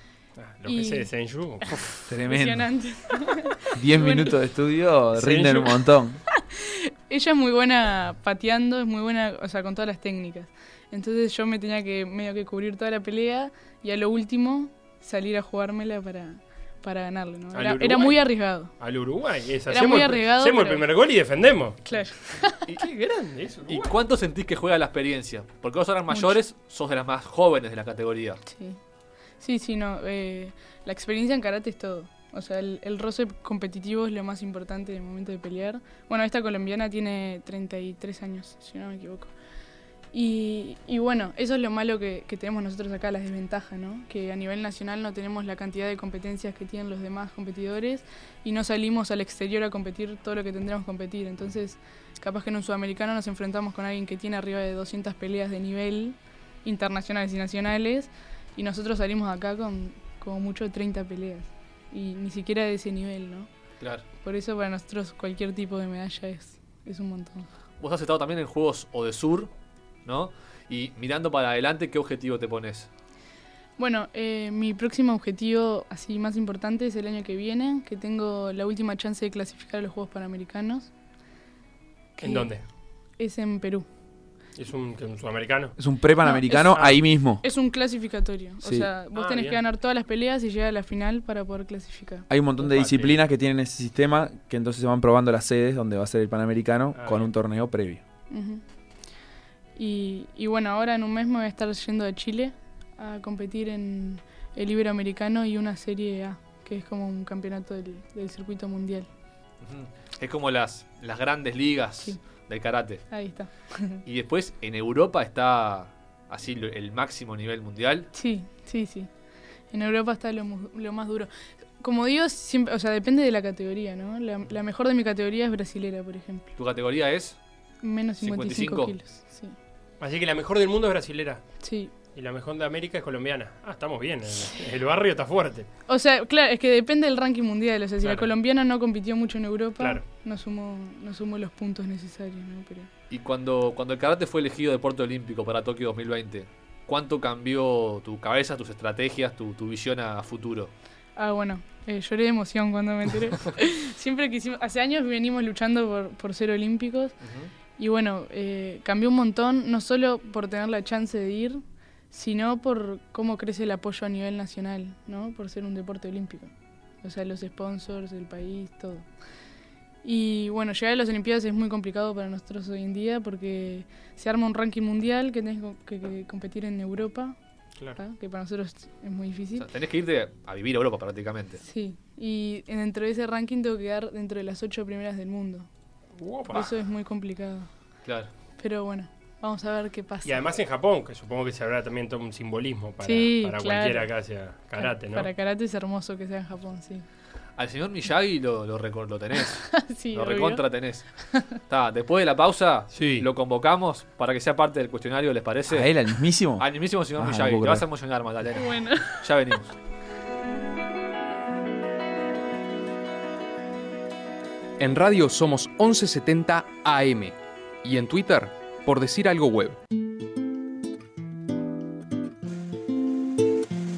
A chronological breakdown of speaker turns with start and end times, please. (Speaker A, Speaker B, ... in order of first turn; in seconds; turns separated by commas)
Speaker A: 0.4-1.9, Speaker B: 0.7-1.1, Speaker C: 2.1-2.7, Speaker B: 2.2-4.3, Speaker C: 3.7-6.2, Speaker A: 5.2-5.7, Speaker B: 6.4-18.7, Speaker A: 17.5-21.8, Speaker B: 19.7-20.9, Speaker B: 21.9-22.6, Speaker A: 22.8-23.9, Speaker D: 23.7-28.4, Speaker B: 26.1-26.4, Speaker B: 28.4-28.8, Speaker B: 29.4-39.3, Speaker B: 40.1-63.5, Speaker B: 64.2-67.5, Speaker D: 67.8-69.5, Speaker D: 70.0-72.9, Speaker B: 73.8-80.9, Speaker B: 82.2-82.5, Speaker A: 82.2-82.6, Speaker B: 83.2-83.8, Speaker A: 84.5-85.7, Speaker C: 85.8-87.4, Speaker B: 86.2-92.3, Speaker C: 88.6-88.9, Speaker A: 89.1-89.6, Speaker C: 92.3-98.0, Speaker A: 92.6-93.2, Speaker A: 96.9-97.3, Speaker B: 98.3-98.6, Speaker B: 99.8-109.1, Speaker D: 109.6-113.0, Speaker B: 113.1-114.0, Speaker D: 114.0-118.1, Speaker B: 118.1-119.1, Speaker B: 119.7-121.3, Speaker B: 121.8-126.5, Speaker D: 126.6-127.4, Speaker B: 127.8-129.5, Speaker D: 128.2-128.9, Speaker A: 130.0-131.4, Speaker B: 131.6-131.9, Speaker A: 132.1-135.7, Speaker B: 135.9-142.9, Speaker A: 138.0-138.3, Speaker D: 143.1-150.7, Speaker B: 151.2-157.1, Speaker D: 157.2-157.5, Speaker B: 157.8-166.5, Speaker B: 167.0-169.1, Speaker B: 170.0-177.3, Speaker B: 177.9-179.7, Speaker D: 179.6-181.6, Speaker B: 181.6-185.7, Speaker A: 186.2-186.7, Speaker B: 186.5-187.7, Speaker B: 188.6-190.4, Speaker A: 190.2-195.3, Speaker B: 193.0-194.1, Speaker B: 194.8-197.0, Speaker D: 197.6-201.1, Speaker B: 199.7-200.6, Speaker D: 201.6-205.9, Speaker A: 202.9-203.3, Speaker C: 205.7-207.8, Speaker D: 206.6-209.7, Speaker B: 208.5-209.2, Speaker E: 214.8-219.8